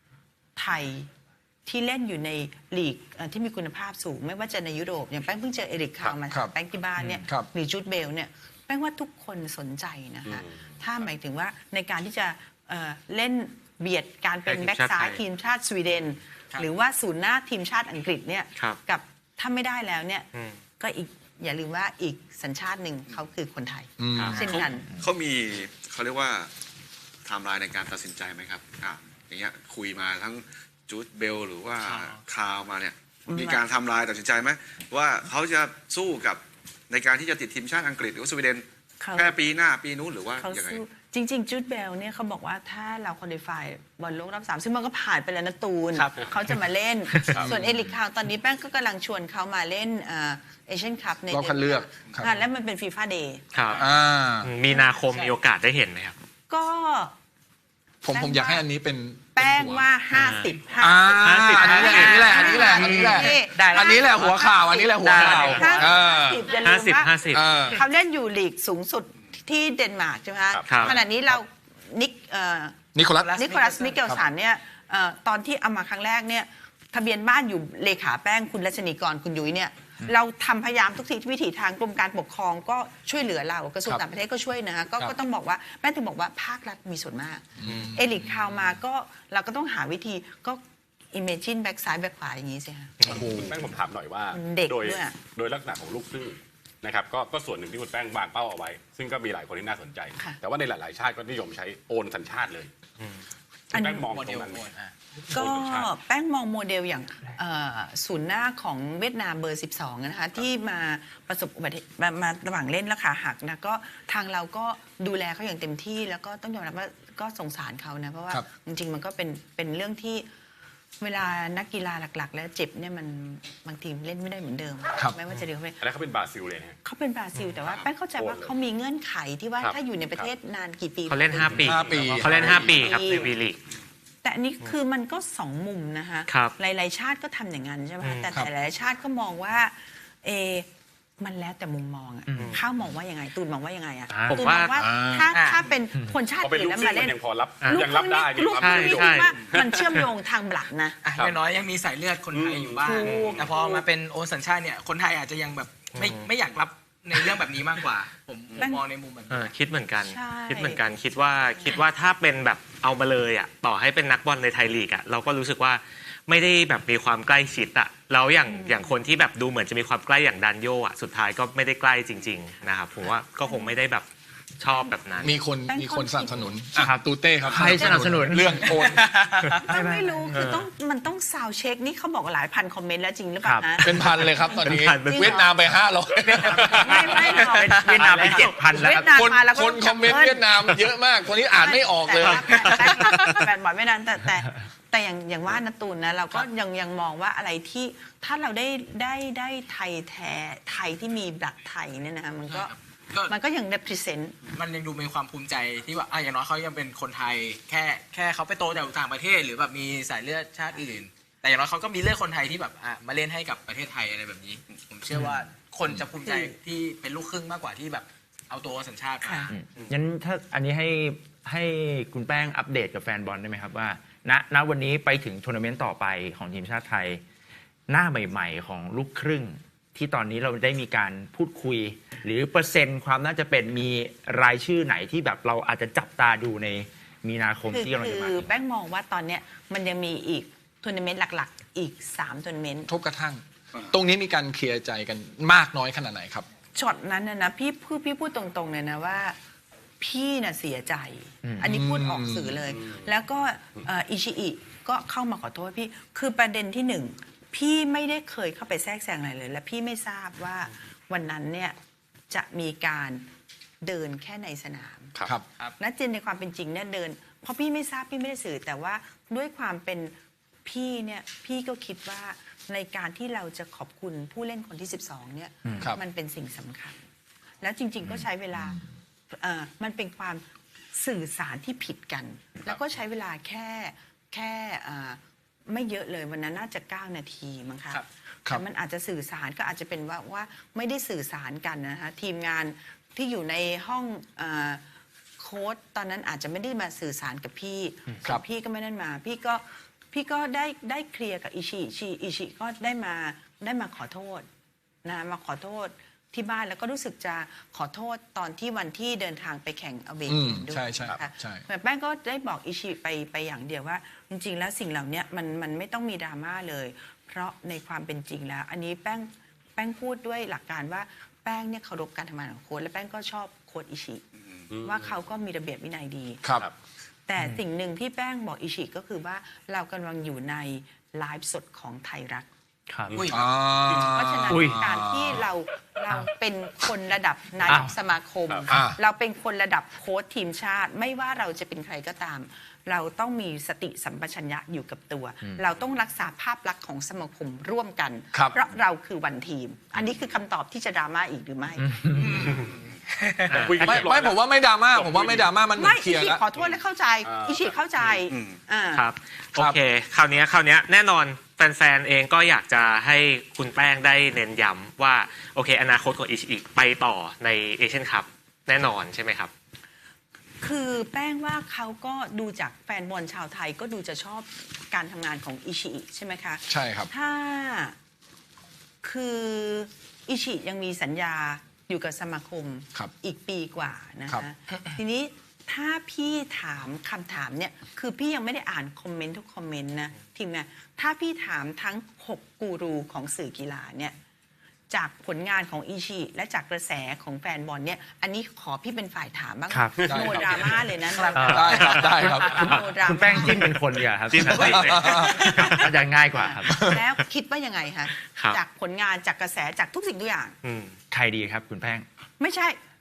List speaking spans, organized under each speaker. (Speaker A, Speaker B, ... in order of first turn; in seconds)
Speaker A: 0.6-1.1, 1.6-20.3, 20.8-24.9, 33.3-33.6, 39.0-39.3, 40.4-53.4, 54.7-55.0, 56.5-57.1, 58.1-58.6, 59.3-90.6, 91.1-93.0, 94.3-95.2, 103.7-104.1, 105.3-120.3, 121.0-125.8, 126.8-133.3, 134.2-140.7, 141.2-151.0, 152.8-153.9, 158.6-158.8, 160.0-160.8, 168.5-168.9, 173.4-173.8, 175.6-176.6, 177.5-178.7, 179.6-184.3, 185.1-185.4, 186.3-190.5, 191.5-202.7, 203.3-204.4, 216.2-216.6, 219.2-219.5, 237.7-242.9, 246.7-249.3, 250.0-261.7, 262.3-263.3, 263.8-265.2, 265.8-270.1, 270.6-277.0, 277.6-278.8, 279.3-294.8, 295.4-304.5, 305.0-324.2, 324.8-326.4, 327.3-332.5, 333.9-351.9, 355.8-359.1, 370.6-377.9, 379.0-394.1, 394.9-403.7, 406.3-410.6, 412.4-412.8
Speaker B: 6.3-6.5, 24.0-24.4, 51.3-52.3, 53.7-54.5, 58.0-59.9, 60.8-66.5, 67.3-67.8, 72.9-73.4, 87.6-88.1, 93.0-93.5, 131.6-132.9, 144.8-145.3, 175.2-179.1, 183.8-187.4, 189.1-192.7, 242.9-246.4, 251.6-252.6, 310.3-311.6, 333.3-335.4, 338.7-339.0, 353.8-356.4, 359.5-359.8, 376.7-377.1, 400.0-400.8, 401.4-402.6, 404.5-405.5
Speaker C: 7.0-7.2, 142.3-142.6, 176.7-178.8, 179.7-180.3, 183.4-183.8, 187.4-189.1, 215.2-215.5, 219.5-227.2, 227.9-238.5, 251.4-251.7, 332.9-333.2, 334.5-334.8, 337.6-337.9, 351.8-352.4, 399.7-400.1, 401.3-406.9, 411.1-412.1
Speaker D: 10.2-11.0, 47.3-47.5, 70.5-71.0, 93.1-102.7, 103.7-104.7, 105.3-105.9, 125.8-126.8, 128.1-128.5, 129.6-130.3, 131.8-132.2, 146.4-150.0, 152.3-153.5, 324.7-325.1, 333.1-334.1, 338.5-338.8, 352.2-352.7, 353.5-354.4, 354.9-355.5, 356.6-358.2, 400.0-400.9
Speaker E: 14.4-15.2, 20.3-20.6, 24.1-24.4, 53.5-53.8, 54.4-56.1, 60.1-60.5, 61.2-63.2, 65.1-65.8, 66.6-67.6, 70.7-71.0, 87.6-88.0, 93.0-93.3, 103.0-103.2, 131.1-133.6, 136.3-136.5, 138.0-138.3, 142.3-142.6, 144.1-144.7, 148.5-149.4, 153.0-153.4, 155.9-156.3, 159.3-174.1, 174.6-175.3, 180.3-180.7, 184.3-185.4, 186.3-188.8, 353.5-354.2, 358.9-369.5, 401.7-402.0, 404.3-406.0, 408.3-408.6, 410.6-411.0
Speaker F: 24.3-26.5, 27.2-40.8, 324.4-324.7, 358.3-358.6
Speaker G: 31.8-32.2, 45.9-46.2, 47.2-47.4, 55.1-55.4, 61.6-64.4, 73.2-74.0, 104.1-104.9, 145.3-145.6, 151.0-159.5, 178.9-179.5, 192.7-193.3, 202.4-203.3, 204.5-219.5, 333.1-333.5, 352.2-353.6, 401.1-401.5, 404.6-405.5